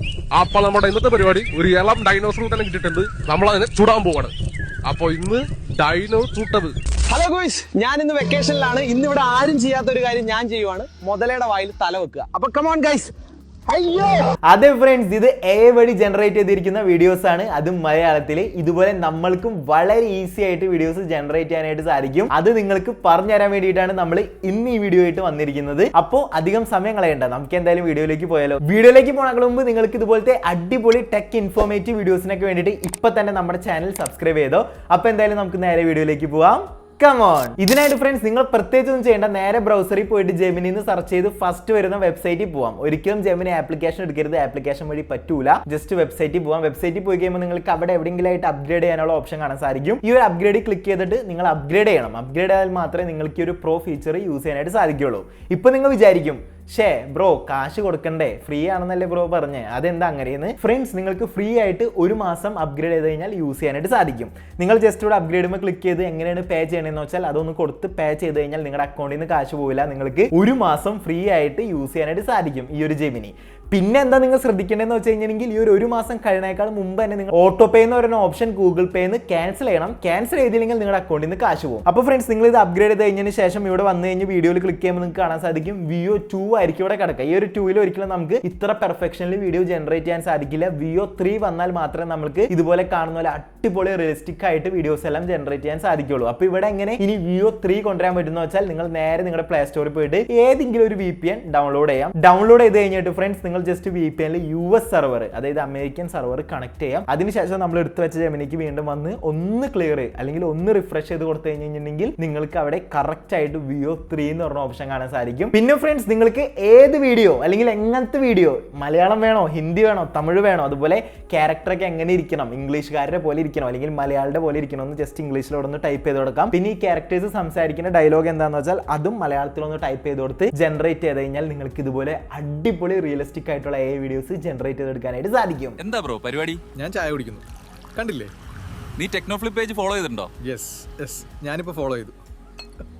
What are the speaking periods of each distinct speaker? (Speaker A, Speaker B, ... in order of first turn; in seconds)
Speaker A: 0.4-4.3, 4.9-6.7
Speaker B: 7.1-13.1, 13.7-14.3
Speaker C: 14.5-135.8
Speaker D: 135.8-136.6, 139.0-140.3
Speaker E: 136.8-137.4, 138.0-138.3, 140.4-142.2